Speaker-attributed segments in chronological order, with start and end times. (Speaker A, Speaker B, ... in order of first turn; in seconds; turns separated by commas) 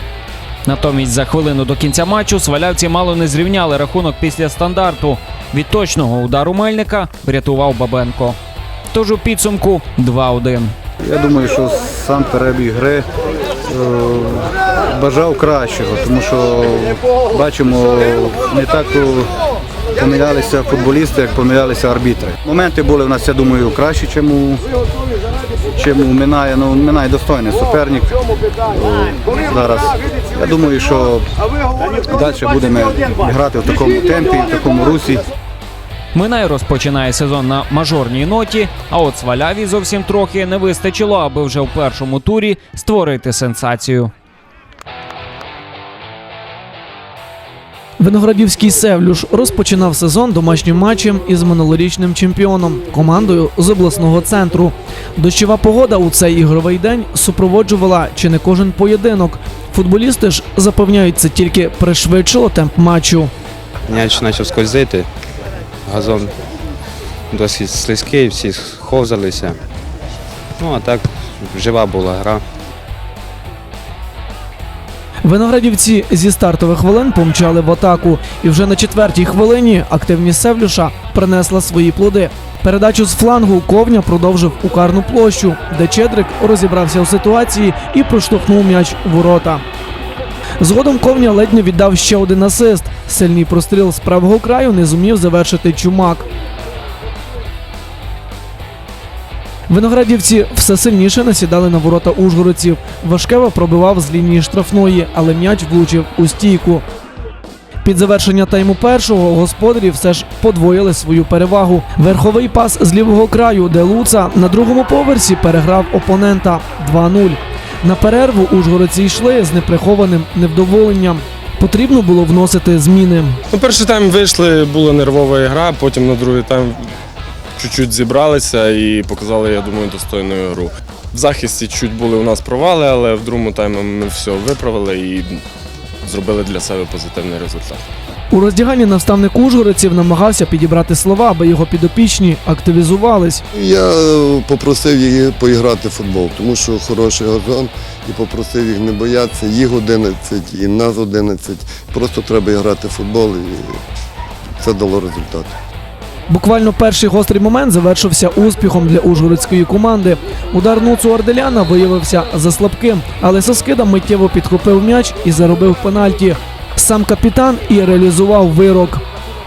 Speaker A: 0.7-8.4, Speaker A: 8.9-10.7, Speaker B: 11.1-12.9, Speaker B: 13.8-14.3, Speaker B: 15.0-16.6, Speaker B: 17.4-17.8, Speaker B: 18.5-19.1, Speaker B: 20.0-24.4, Speaker B: 25.8-28.1, Speaker B: 28.7-29.9, Speaker B: 30.4-31.2, Speaker B: 32.2-35.2, Speaker A: 36.1-44.1, Speaker C: 48.0-63.3, Speaker D: 63.9-65.1, Speaker D: 65.9-66.3, Speaker D: 67.3-69.6, Speaker D: 70.6-72.4, Speaker C: 75.2-89.6, Speaker C: 90.6-96.3, Speaker C: 99.7-106.8, Speaker C: 107.8-123.4, Speaker E: 123.5-126.8, Speaker E: 127.6-135.4, Speaker E: 136.0-137.8, Speaker C: 138.3-143.4, Speaker F: 143.5-153.8, Speaker F: 154.6-155.5, Speaker C: 156.3-169.0